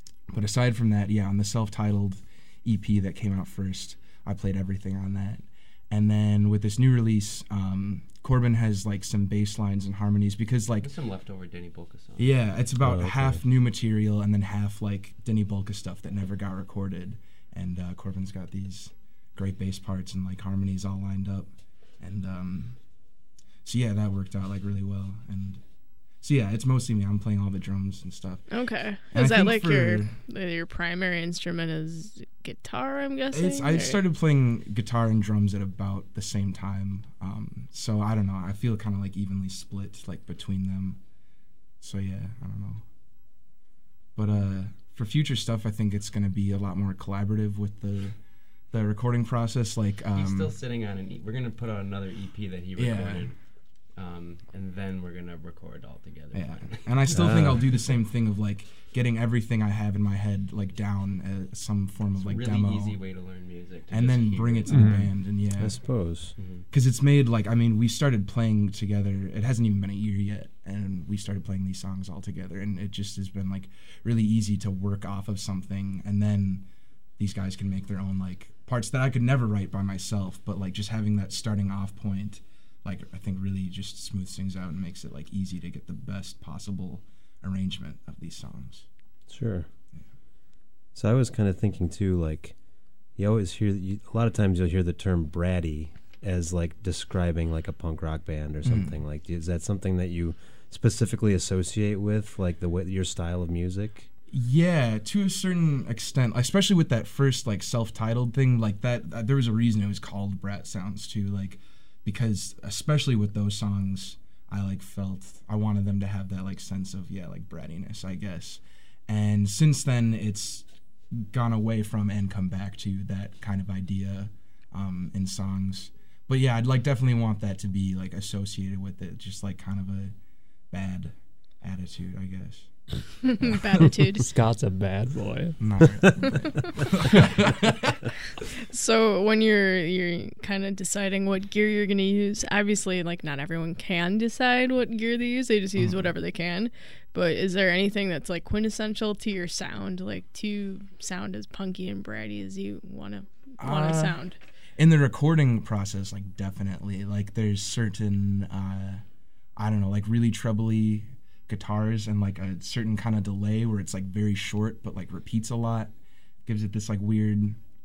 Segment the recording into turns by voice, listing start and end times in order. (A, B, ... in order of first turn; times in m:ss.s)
0:00.3-0:10.9 A
0:10.8-0:12.5 B
0:12.2-0:21.5 A
0:12.8-0:13.4 C
0:22.0-0:22.8 A
0:23.6-0:25.6 A
0:26.2-0:28.4 A
0:28.5-0:34.0 D
0:29.1-0:30.1 A
0:33.3-0:41.0 A
0:41.8-0:42.8 A
0:44.2-0:48.2 A
0:48.7-0:50.6 A
0:50.1-0:57.4 B
0:52.8-0:53.3 A
0:56.3-1:03.0 A
0:57.1-0:57.7 C
1:02.1-1:04.9 B
1:03.9-1:06.1 A
1:04.7-1:05.1 E
1:05.6-1:06.3 C
1:06.4-1:06.7 B
1:06.7-1:16.6 A
1:17.2-1:28.8 A
1:29.3-1:29.7 C
1:30.9-1:32.6 C
1:33.2-1:44.1 C
1:38.6-1:38.9 A
1:44.3-2:10.1 A
2:10.7-2:12.7 A
2:13.2-2:14.3 D
2:14.2-2:15.8 E
2:15.6-2:18.0 A
2:18.7-2:34.4 D
2:25.8-2:26.1 A
2:33.6-2:34.2 A
2:34.8-2:39.0 A
2:39.6-2:45.9 A
2:46.4-2:47.6 A